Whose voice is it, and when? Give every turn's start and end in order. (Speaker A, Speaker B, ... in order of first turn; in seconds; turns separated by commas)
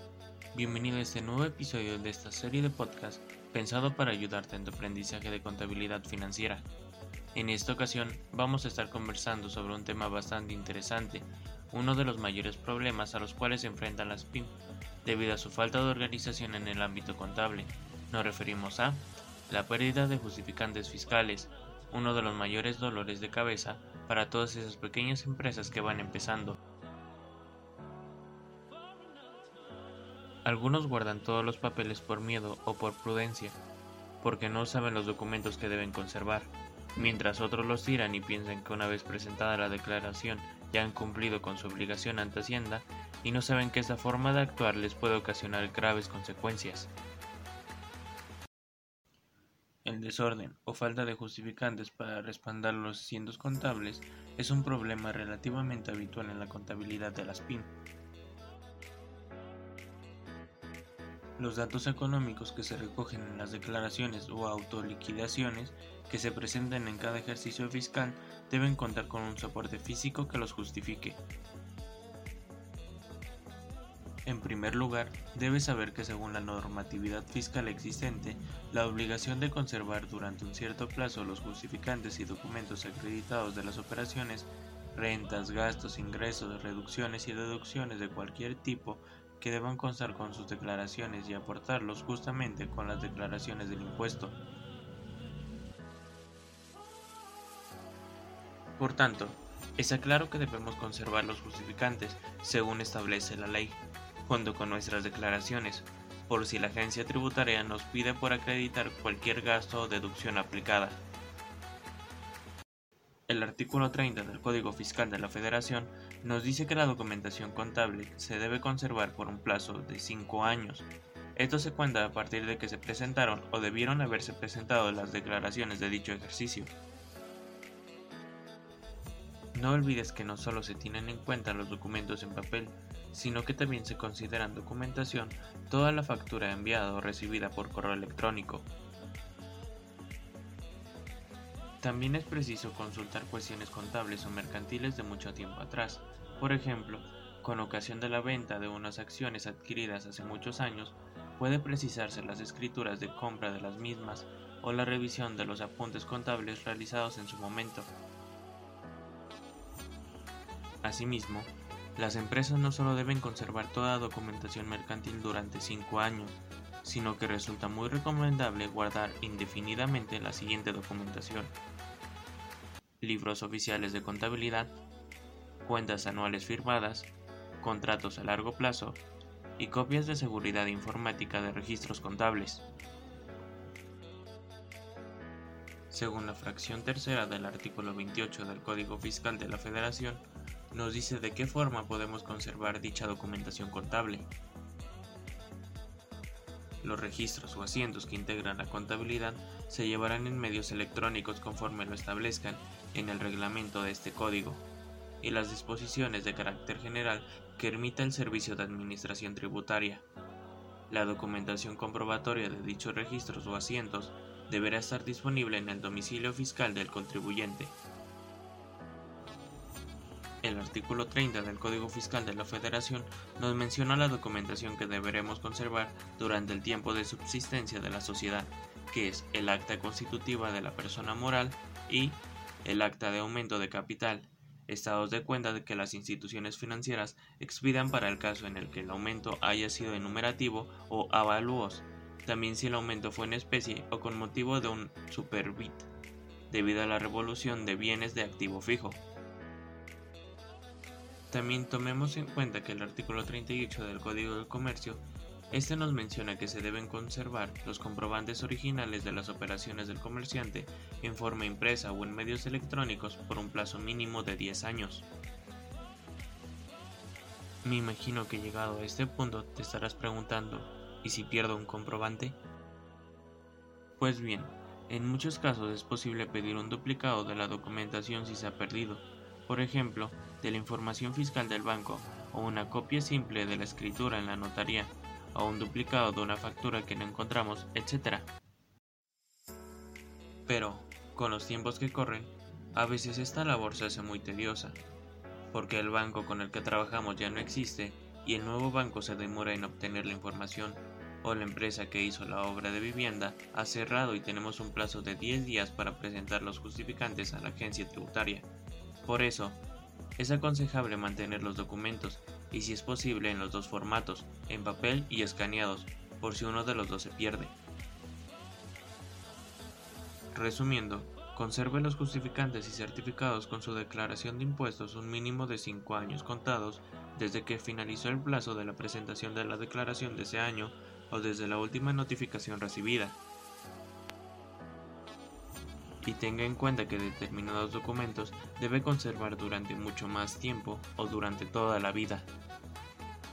Speaker A: 0.5-6.7, Speaker A: 7.3-26.6, Speaker A: 30.4-33.6, Speaker A: 34.2-46.9, Speaker A: 49.8-57.7, Speaker A: 61.4-71.2, Speaker A: 74.2-94.4, Speaker A: 98.8-111.0, Speaker A: 113.3-126.7, Speaker A: 129.5-138.7, Speaker A: 141.8-157.9, Speaker A: 160.8-171.6, Speaker A: 173.0-174.8, Speaker A: 175.6-179.0, Speaker A: 179.6-182.7, Speaker A: 185.9-194.3, Speaker A: 196.8-204.7, Speaker A: 205.2-210.1, Speaker A: 210.9-217.8, Speaker A: 220.4-245.9, Speaker A: 246.5-249.0, Speaker A: 251.3-265.1, Speaker A: 267.6-272.4, Speaker A: 274.0-288.3, Speaker A: 290.5-294.8, Speaker A: 295.5-308.5, Speaker A: 309.0-309.6, Speaker A: 310.2-317.6, Speaker A: 320.3-333.2, Speaker A: 336.0-342.3